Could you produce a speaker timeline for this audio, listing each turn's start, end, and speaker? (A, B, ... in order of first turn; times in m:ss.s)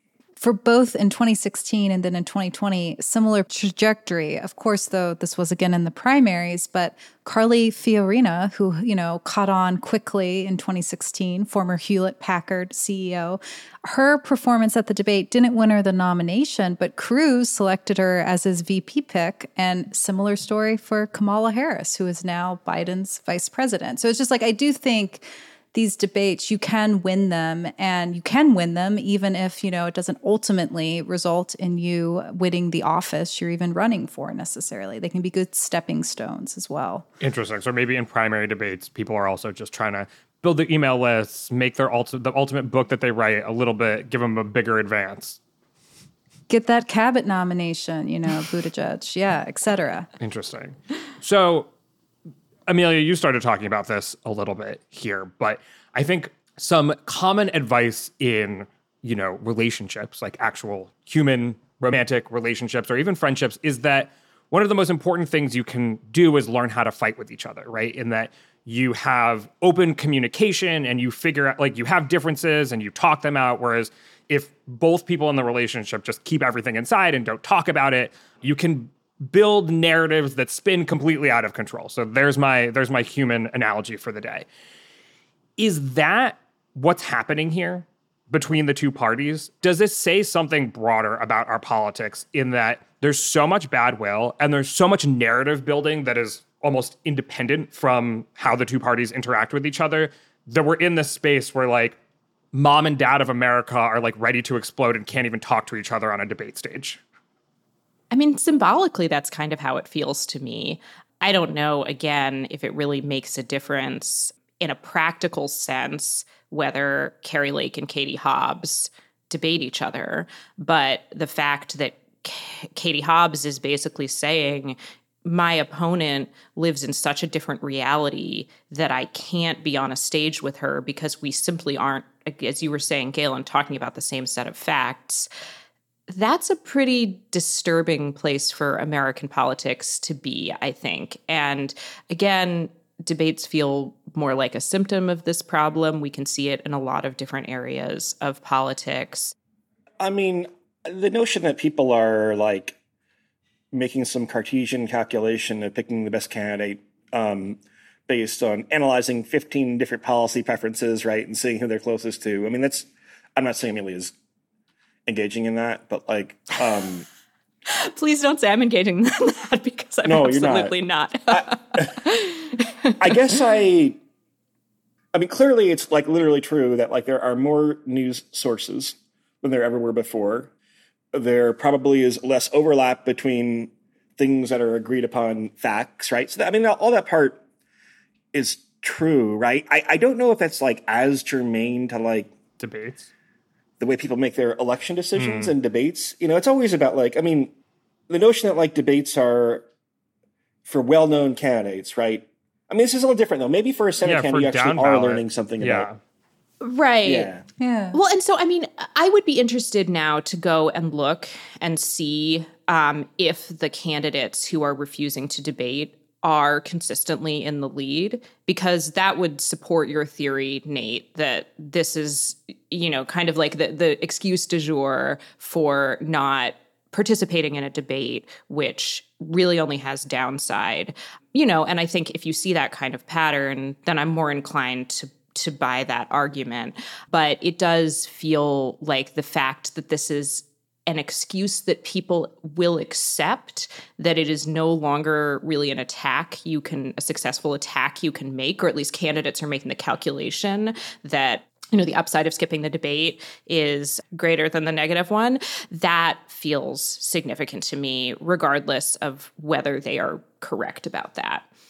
0:00.4-0:37.0 A
0:37.2-0:45.4 B
0:46.5-0:50.1 A
0:50.2-0:51.7 B
0:52.7-1:24.4 B
1:25.6-1:42.0 B
1:42.5-1:47.0 B
1:48.1-2:15.3 C
2:16.1-2:29.3 C
2:30.0-2:32.8 D
2:33.7-2:44.1 D
2:45.1-2:47.0 D
2:47.7-2:53.4 C
2:50.0-2:50.7 D
2:51.3-2:52.0 D
2:53.0-2:54.0 D
2:55.1-3:00.5 D
3:01.1-3:07.4 D
3:08.3-3:12.3 D
3:12.6-3:13.1 B
3:13.8-3:17.5 D
3:15.2-3:15.5 B
3:18.1-3:19.6 D
3:20.6-3:25.9 D
3:24.0-3:26.0 B
3:26.6-3:27.3 C
3:27.0-3:27.4 D
3:27.6-3:28.0 A
3:27.9-4:21.4 C